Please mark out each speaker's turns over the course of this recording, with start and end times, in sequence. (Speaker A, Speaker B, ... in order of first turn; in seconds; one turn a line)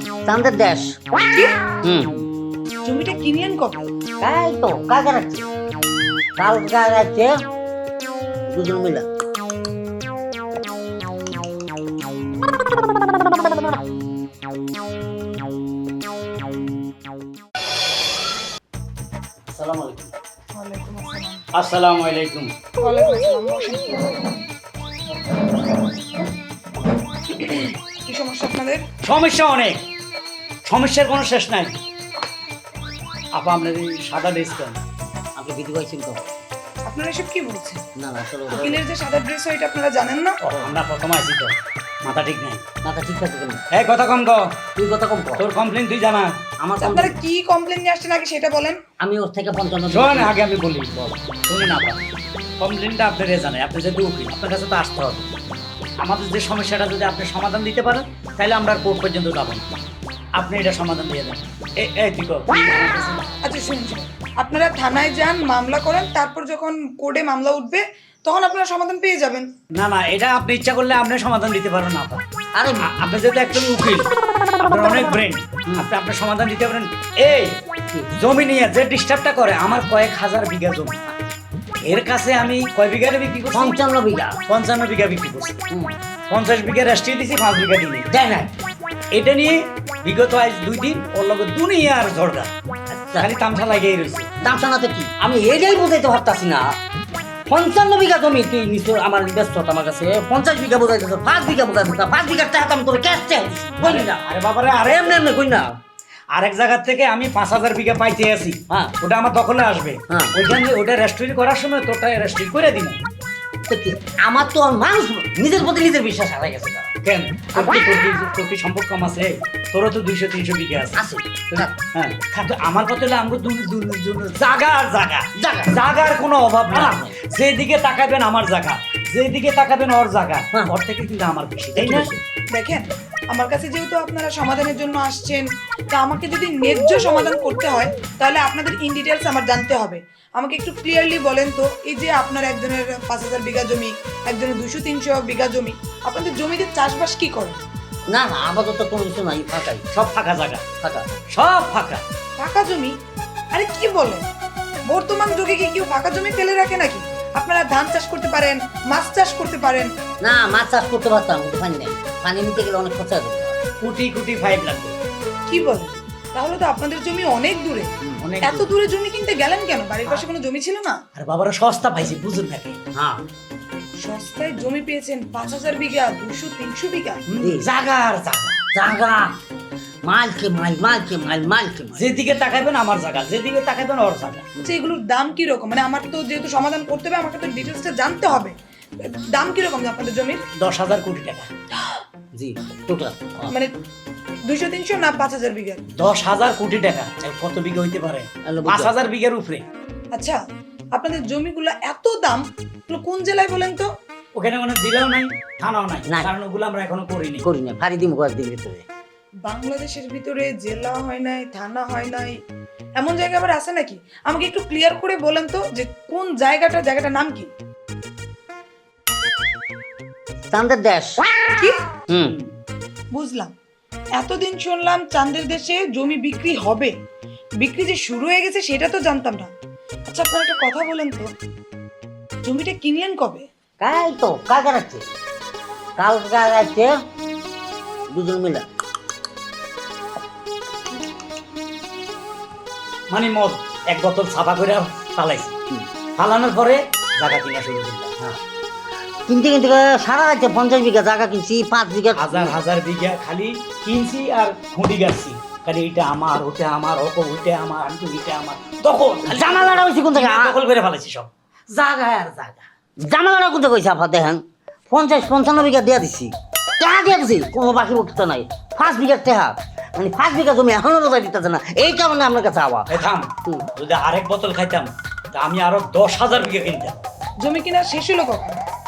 Speaker A: 0.2-1.0
Speaker A: 1.8-2.2
Speaker B: 2.8-3.9
Speaker A: 4.2-5.5
Speaker A: 6.4-7.3
Speaker A: 8.5-9.1
Speaker A: 19.5-20.1
Speaker B: 20.5-21.5
Speaker C: 21.5-22.5
Speaker B: 22.8-24.1
Speaker B: 27.3-28.9
Speaker C: 29.0-29.8
Speaker C: 30.6-31.7
Speaker C: 33.3-34.8
Speaker A: 35.4-36.3
Speaker B: 36.9-37.8
Speaker A: 38.0-38.8
Speaker B: 38.5-40.4
Speaker C: 40.4-41.5
Speaker C: 42.0-42.6
Speaker A: 42.8-43.6
Speaker C: 43.7-44.5
Speaker A: 44.8-45.4
Speaker C: 45.4-46.4
Speaker A: 46.6-47.1
Speaker B: 46.8-48.8
Speaker A: 49.0-50.3
Speaker C: 49.9-52.0
Speaker C: 52.6-55.3
Speaker C: 56.0-59.7
Speaker C: 60.4-63.3
Speaker B: 63.4-69.5
Speaker C: 69.7-72.2
Speaker A: 72.5-72.9
Speaker C: 72.8-74.1
Speaker C: 74.6-77.5
Speaker A: 77.9-78.1
Speaker C: 78.2-81.0
Speaker C: 81.8-83.8
Speaker A: 83.5-84.4
Speaker C: 84.5-85.6
Speaker A: 85.7-86.0
Speaker C: 86.3-88.1
Speaker A: 88.1-88.5
Speaker C: 89.1-92.5
Speaker A: 92.9-93.3
Speaker C: 93.2-94.3
Speaker A: 94.4-96.8
Speaker A: 97.5-104.2
Speaker C: 103.8-105.2
Speaker A: 104.8-105.7
Speaker C: 106.3-113.0
Speaker A: 113.7-116.9
Speaker C: 117.0-132.1
Speaker A: 120.9-121.7
Speaker A: 125.3-125.8
Speaker A: 126.7-127.1
Speaker A: 131.7-132.2
Speaker B: 132.5-147.6
Speaker A: 148.1-149.8
Speaker C: 149.9-150.7
Speaker C: 151.3-152.0
Speaker B: 152.4-152.9
Speaker B: 153.5-154.3
Speaker B: 154.9-159.9
Speaker A: 160.2-163.6
Speaker C: 163.8-164.9
Speaker B: 165.5-167.9
Speaker C: 168.2-168.7
Speaker B: 168.4-171.0
Speaker C: 171.1-172.8
Speaker A: 172.9-173.2
Speaker B: 174.0-177.2
Speaker C: 177.3-178.7
Speaker A: 177.4-177.7
Speaker A: 178.7-179.3
Speaker A: 180.0-182.0
Speaker C: 181.9-184.5
Speaker B: 184.6-190.4
Speaker C: 190.6-191.5
Speaker A: 192.3-193.5
Speaker B: 194.5-195.8
Speaker C: 195.9-199.7
Speaker A: 198.5-198.9
Speaker B: 200.9-203.9
Speaker C: 204.3-207.4
Speaker A: 207.4-208.8
Speaker B: 209.4-212.3
Speaker B: 213.0-217.5
Speaker A: 220.5-221.2
Speaker A: 222.1-222.3
Speaker C: 222.3-222.5
Speaker B: 223.1-223.5
Speaker B: 224.2-226.9
Speaker B: 227.6-229.5
Speaker B: 230.1-231.3
Speaker B: 232.4-233.5
Speaker A: 233.8-235.1
Speaker A: 236.0-237.0
Speaker A: 238.1-238.6
Speaker C: 243.1-245.5
Speaker C: 246.2-248.4
Speaker A: 249.3-252.6
Speaker C: 252.2-262.6
Speaker A: 259.2-260.6
Speaker A: 263.0-272.9
Speaker C: 272.9-277.0
Speaker B: 277.4-278.6